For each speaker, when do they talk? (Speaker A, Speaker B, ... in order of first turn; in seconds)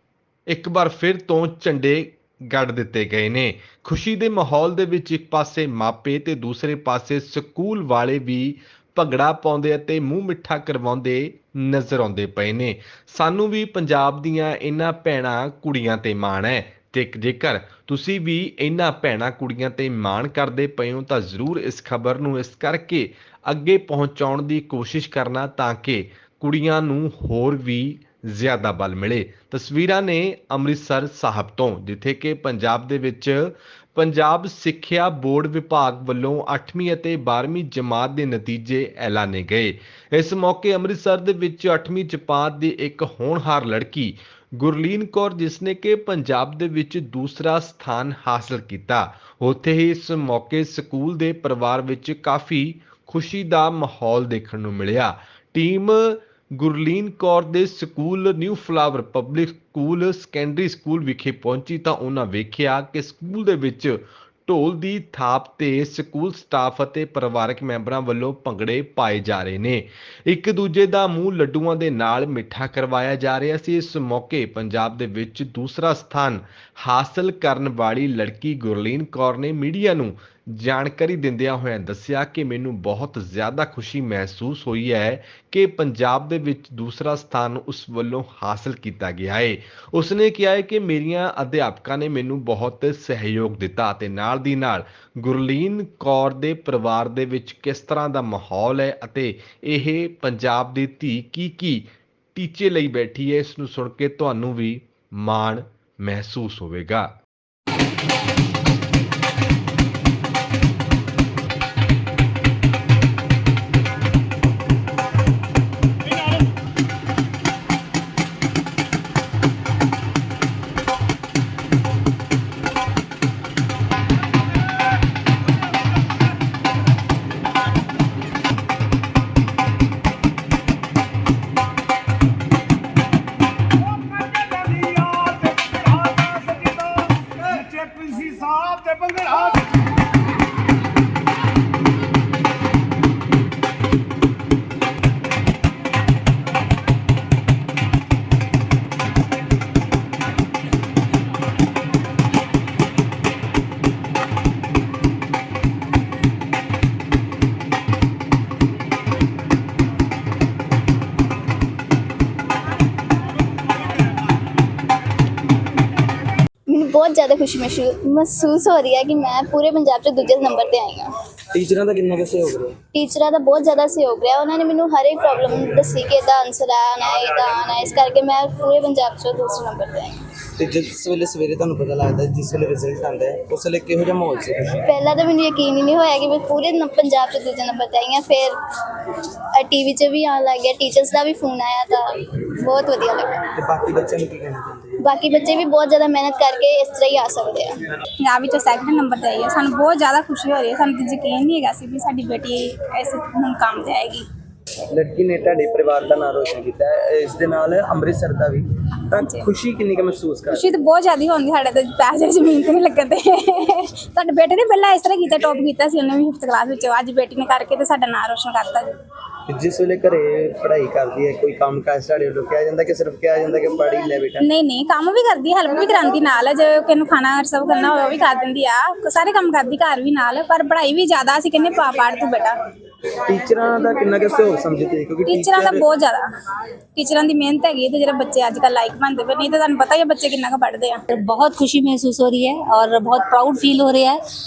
Speaker A: 0.5-107.1
Speaker B: 134.1-136.8, 137.4-139.5
Speaker C: 166.7-171.1, 172.9-180.2, 184.8-193.5, 195.0-197.8
Speaker D: 171.5-172.8, 180.6-184.9, 193.6-195.0, 204.9-210.7, 219.5-224.4, 233.2-235.8
Speaker E: 198.2-204.2, 209.2-209.5, 210.5-218.9, 224.4-232.6, 235.3-236.3, 236.9-241.0
Speaker F: 241.1-244.2